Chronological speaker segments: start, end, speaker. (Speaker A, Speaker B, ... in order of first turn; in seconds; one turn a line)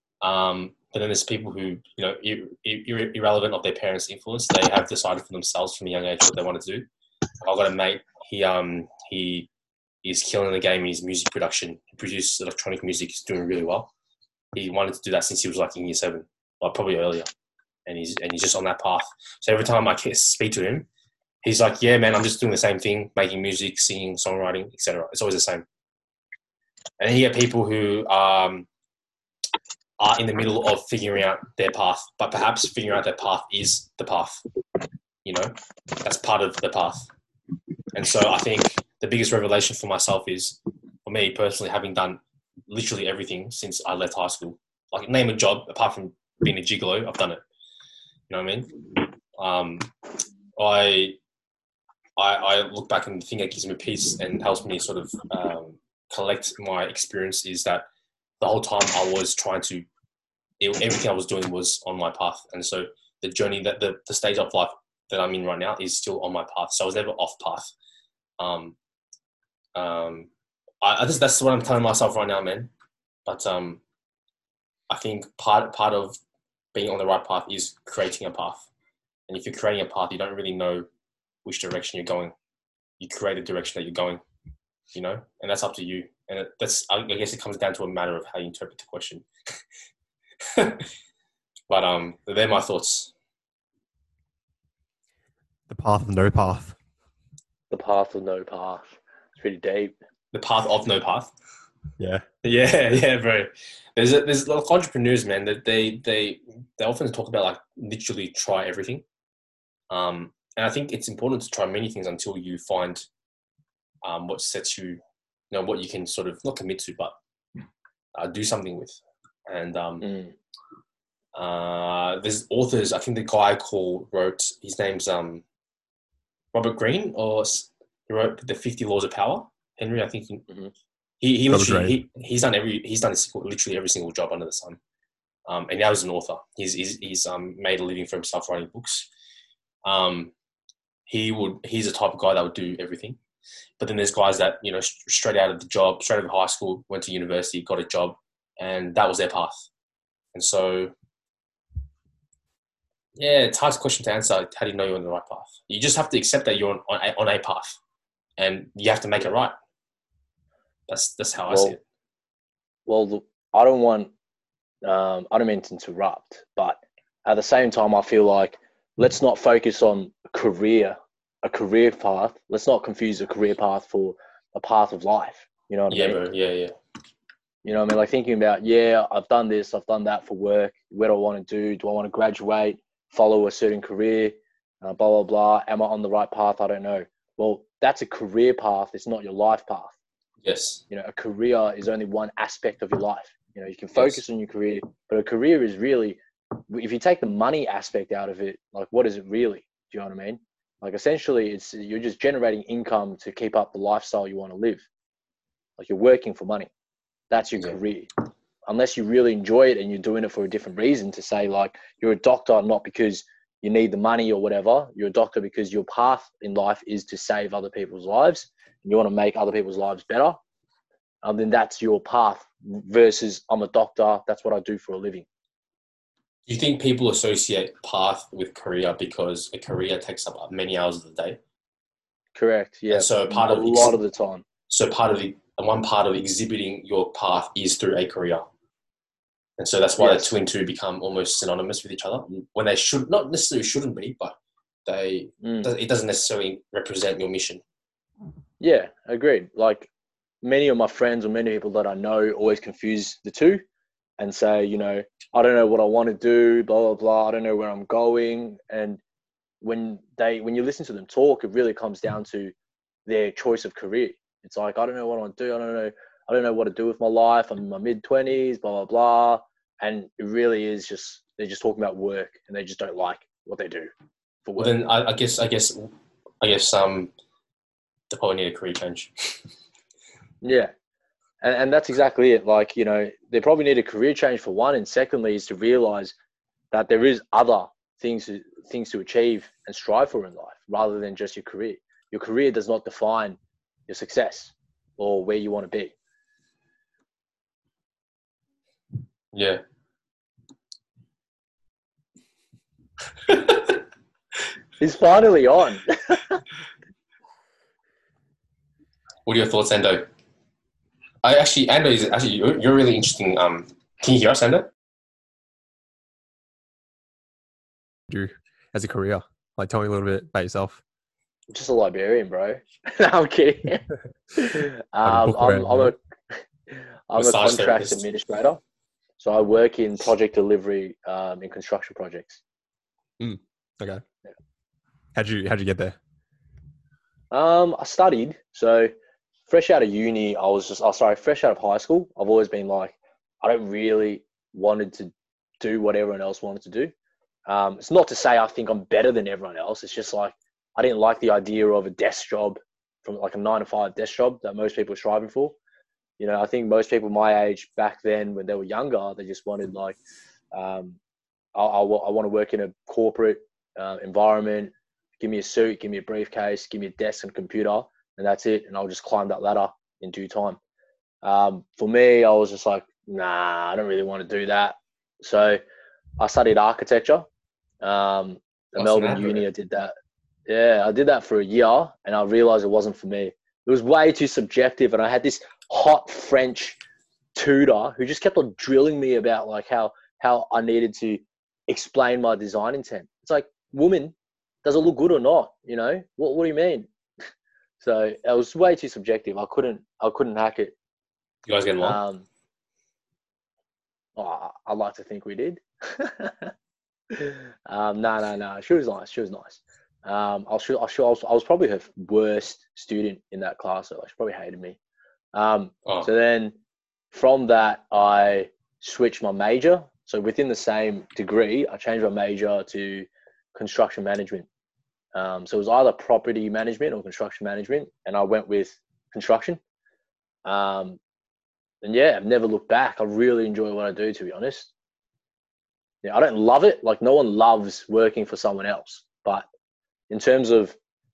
Speaker A: 0.2-6.9
Speaker A: 7.4-9.5
Speaker A: 10.0-13.9
Speaker A: 14.5-17.3
Speaker A: 17.9-20.9
Speaker A: 21.4-25.7
Speaker A: 27.0-28.7
Speaker A: 30.0-34.4
Speaker A: 35.2-37.1
Speaker A: 37.9-47.4
Speaker A: 48.3-48.8
Speaker A: 49.4-49.9
Speaker A: 50.6-51.2
Speaker A: 52.2-57.9
Speaker A: 58.4-59.9
Speaker A: 60.6-67.7
Speaker A: 68.4-68.8
Speaker A: 69.8-70.3
Speaker A: 70.8-72.7
Speaker A: 73.3-73.8
Speaker A: 74.9-76.2
Speaker A: 76.7-78.7
Speaker A: 79.3-80.9
Speaker A: 81.5-82.3
Speaker A: 83.0-84.2
Speaker A: 84.9-89.2
Speaker A: 90.5-90.8
Speaker A: 91.7-93.1
Speaker B: 95.7-96.8
Speaker C: 97.7-100.0
Speaker A: 100.3-101.3
Speaker B: 102.0-102.3
Speaker A: 102.4-109.0
Speaker A: 109.9-113.0
Speaker A: 114.0-115.0
Speaker A: 115.5-117.2
Speaker A: 118.2-120.0
Speaker C: 120.0-120.3
Speaker A: 121.3-125.4
Speaker A: 126.5-130.5
Speaker A: 131.2-134.8
Speaker B: 131.5-131.9
Speaker A: 135.5-139.1
Speaker A: 139.8-140.3
Speaker A: 141.1-143.2
Speaker A: 143.8-149.6
Speaker A: 150.3-150.9
Speaker A: 153.2-157.8
Speaker A: 158.4-159.5
Speaker A: 160.9-161.8
Speaker C: 161.5-161.8
Speaker C: 162.9-164.1
Speaker C: 164.8-176.2
Speaker A: 175.9-176.7
Speaker C: 177.7-190.0
Speaker A: 190.4-190.8
Speaker C: 190.9-204.8
Speaker C: 205.8-206.7
Speaker C: 207.3-208.1
Speaker C: 208.7-220.4
Speaker C: 221.2-225.3
Speaker A: 226.5-231.4
Speaker C: 232.3-234.4
Speaker A: 232.9-234.0
Speaker A: 234.7-238.5
Speaker A: 239.6-244.3
Speaker C: 240.0-240.3
Speaker A: 244.9-247.6
Speaker C: 245.4-245.7
Speaker C: 248.6-249.9
Speaker C: 250.4-253.6
Speaker C: 254.2-259.0
Speaker C: 259.6-262.5
Speaker C: 263.1-273.9
Speaker C: 274.5-274.7
Speaker A: 274.6-277.1
Speaker A: 278.1-279.4
Speaker C: 280.4-280.7
Speaker C: 281.4-286.1
Speaker C: 286.7-295.9
Speaker A: 299.3-299.6
Speaker A: 303.3-303.8
Speaker C: 304.8-306.4
Speaker A: 309.3-310.1
Speaker A: 311.2-314.7
Speaker B: 318.1-320.8
Speaker C: 321.5-328.6
Speaker B: 325.1-325.9
Speaker A: 327.1-328.0
Speaker C: 329.2-332.4
Speaker B: 333.2-334.0
Speaker B: 335.1-336.0
Speaker C: 337.3-338.9
Speaker C: 339.5-346.9
Speaker C: 347.5-355.6
Speaker C: 356.2-360.0
Speaker C: 360.5-361.0
Speaker C: 361.6-370.6
Speaker C: 371.2-375.6
Speaker C: 376.2-377.2
Speaker C: 377.8-379.9
Speaker A: 378.8-379.4
Speaker C: 380.5-386.8
Speaker C: 387.4-394.1
Speaker C: 394.6-396.9
Speaker C: 397.8-400.8
Speaker A: 401.5-402.0
Speaker C: 401.8-402.3
Speaker C: 404.2-406.5
Speaker C: 407.1-414.8
Speaker C: 415.3-416.6
Speaker C: 417.1-424.5
Speaker C: 425.1-429.6
Speaker C: 430.5-431.0
Speaker C: 431.8-434.7
Speaker C: 436.0-439.5
Speaker C: 440.1-440.8